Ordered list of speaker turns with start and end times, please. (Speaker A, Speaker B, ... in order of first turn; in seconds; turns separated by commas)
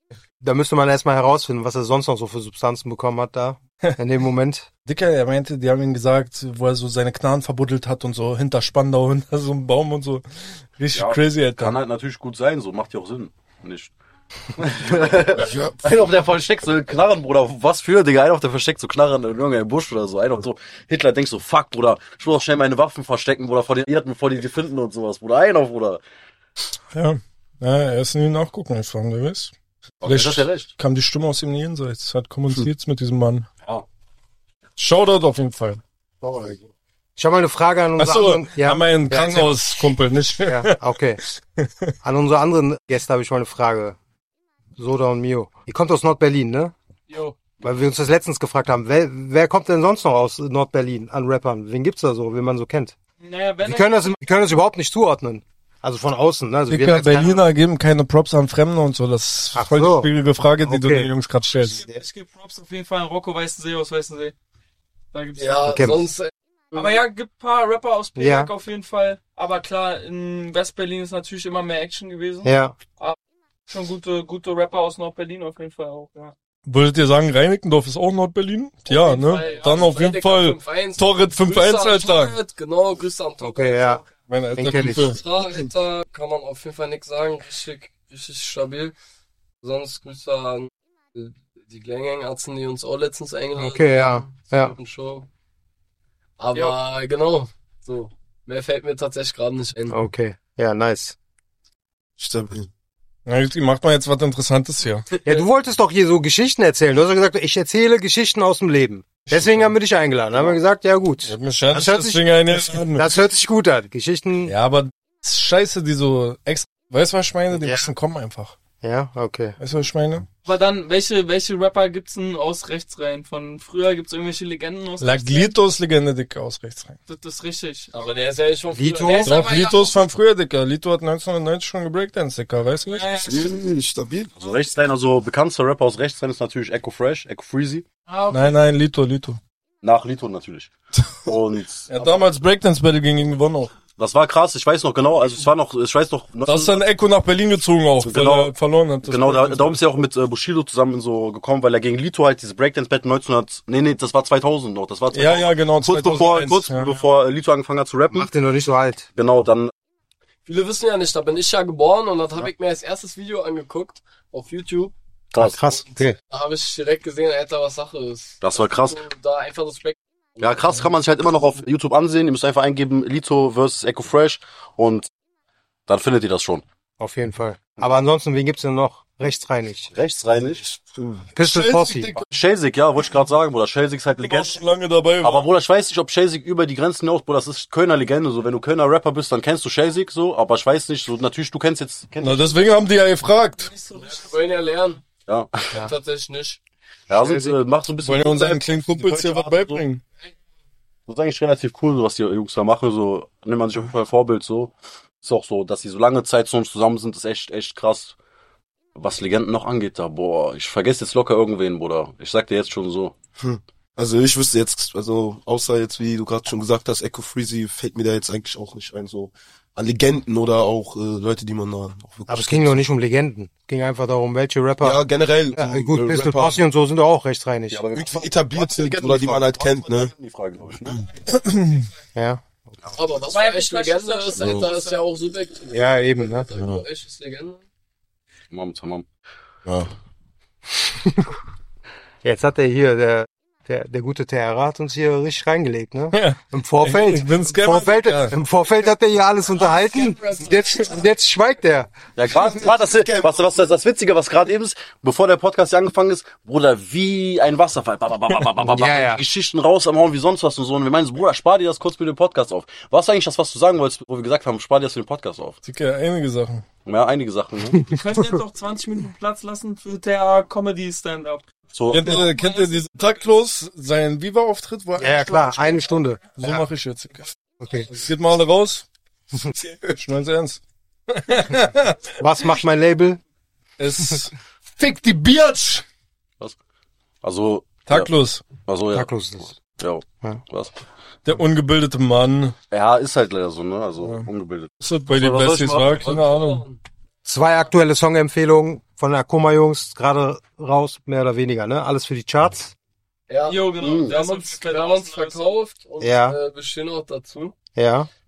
Speaker A: 0.4-4.7, Speaker B: 4.9-10.2, Speaker B: 10.8-11.8, Speaker C: 10.9-13.9, Speaker C: 14.6-26.0, Speaker D: 15.4-15.9, Speaker B: 26.9-29.5, Speaker C: 30.0-30.7, Speaker B: 30.0-33.5, Speaker B: 34.8-35.8, Speaker A: 36.2-36.6, Speaker A: 37.2-39.6, Speaker B: 38.0-40.8, Speaker A: 40.5-41.2, Speaker B: 41.6-41.9, Speaker A: 42.0-44.0, Speaker A: 44.8-46.7, Speaker E: 47.1-47.4, Speaker A: 47.6-53.0, Speaker E: 53.2-54.2, Speaker A: 53.6-57.4, Speaker B: 56.7-61.8, Speaker A: 59.5-60.1, Speaker A: 60.6-61.1, Speaker E: 61.7-64.3, Speaker E: 65.1-66.0, Speaker F: 65.4-67.0, Speaker A: 65.7-66.0, Speaker E: 66.7-73.2, Speaker A: 68.2-68.5, Speaker A: 72.4-72.8, Speaker E: 73.7-76.3, Speaker B: 76.7-82.4, Speaker F: 78.9-84.0, Speaker E: 78.9-79.9, Speaker A: 83.4-84.0, Speaker B: 84.3-85.2, Speaker A: 84.5-85.2, Speaker F: 84.9-89.0, Speaker F: 89.6-95.3, Speaker A: 93.6-94.8, Speaker F: 96.4-100.0, Speaker A: 99.9-101.2, Speaker D: 102.2-102.7, Speaker B: 103.3-105.1, Speaker A: 105.2-114.5, Speaker B: 109.3-109.7, Speaker B: 111.2-113.1, Speaker B: 114.5-118.5, Speaker A: 117.5-117.9, Speaker A: 118.8-119.6, Speaker B: 119.6-120.3, Speaker E: 120.5-125.6, Speaker B: 125.0-127.0, Speaker E: 127.1-128.2, Speaker F: 128.0-129.7, Speaker A: 128.7-129.3, Speaker B: 129.2-133.1, Speaker E: 129.3-129.9, Speaker E: 132.9-133.5, Speaker D: 133.2-134.3, Speaker C: 134.4-137.8, Speaker E: 138.1-138.6, Speaker B: 138.3-139.4, Speaker C: 139.8-140.7, Speaker C: 141.2-141.9, Speaker B: 141.9-143.7, Speaker C: 144.0-146.8, Speaker B: 146.5-149.8, Speaker C: 148.0-148.5, Speaker C: 149.0-158.3, Speaker B: 155.1-157.0, Speaker A: 158.1-159.1, Speaker C: 159.2-159.7, Speaker F: 160.5-164.9, Speaker C: 165.3-165.6, Speaker A: 165.4-166.2, Speaker F: 166.3-170.8, Speaker C: 168.4-169.0, Speaker C: 170.4-175.1, Speaker C: 175.9-176.6, Speaker A: 177.0-179.9, Speaker C: 179.9-180.7, Speaker D: 180.9-181.2, Speaker A: 181.3-182.2, Speaker B: 181.4-182.2, Speaker C: 182.3-184.6, Speaker B: 184.2-185.5, Speaker C: 185.2-192.6, Speaker B: 192.2-193.7, Speaker E: 193.6-194.6, Speaker F: 194.0-195.0, Speaker C: 195.3-195.7, Speaker F: 195.7-196.6, Speaker C: 197.1-199.8, Speaker A: 197.1-197.6, Speaker B: 198.0-200.0, Speaker C: 201.1-208.2, Speaker C: 209.0-213.1, Speaker D: 213.4-222.8, Speaker A: 222.3-225.0, Speaker D: 224.8-226.6, Speaker A: 225.6-227.8, Speaker C: 227.7-231.1, Speaker D: 227.9-230.1, Speaker B: 231.3-231.9, Speaker A: 232.2-233.0, Speaker F: 232.9-237.6, Speaker E: 233.2-235.1, Speaker D: 234.4-234.7, Speaker A: 235.7-236.5, Speaker D: 236.5-236.8, Speaker C: 238.5-239.1, Speaker D: 239.7-239.9, Speaker A: 240.9-241.3, Speaker A: 242.2-251.9, Speaker B: 246.1-248.4, Speaker F: 249.9-250.4, Speaker C: 252.2-265.6, Speaker D: 252.6-253.3, Speaker A: 258.7-259.2, Speaker B: 265.6-266.6, Speaker C: 266.9-267.9, Speaker E: 267.8-271.4, Speaker C: 271.7-272.3, Speaker B: 271.9-275.8, Speaker E: 272.0-272.7, Speaker A: 275.0-276.6, Speaker B: 276.4-277.3, Speaker A: 277.6-277.9, Speaker B: 277.9-278.9, Speaker B: 279.8-282.0, Speaker A: 282.2-283.2, Speaker B: 283.8-285.9, Speaker C: 287.2-288.1, Speaker B: 287.9-288.4, Speaker C: 288.6-290.8, Speaker A: 288.9-289.5, Speaker B: 291.3-292.6, Speaker C: 292.7-296.1, Speaker B: 294.0-294.3, Speaker B: 294.8-296.7, Speaker F: 296.0-296.8, Speaker A: 297.2-302.7, Speaker F: 303.3-307.5, Speaker E: 303.4-305.6, Speaker C: 303.8-304.1, Speaker A: 306.0-306.4, Speaker A: 307.8-308.1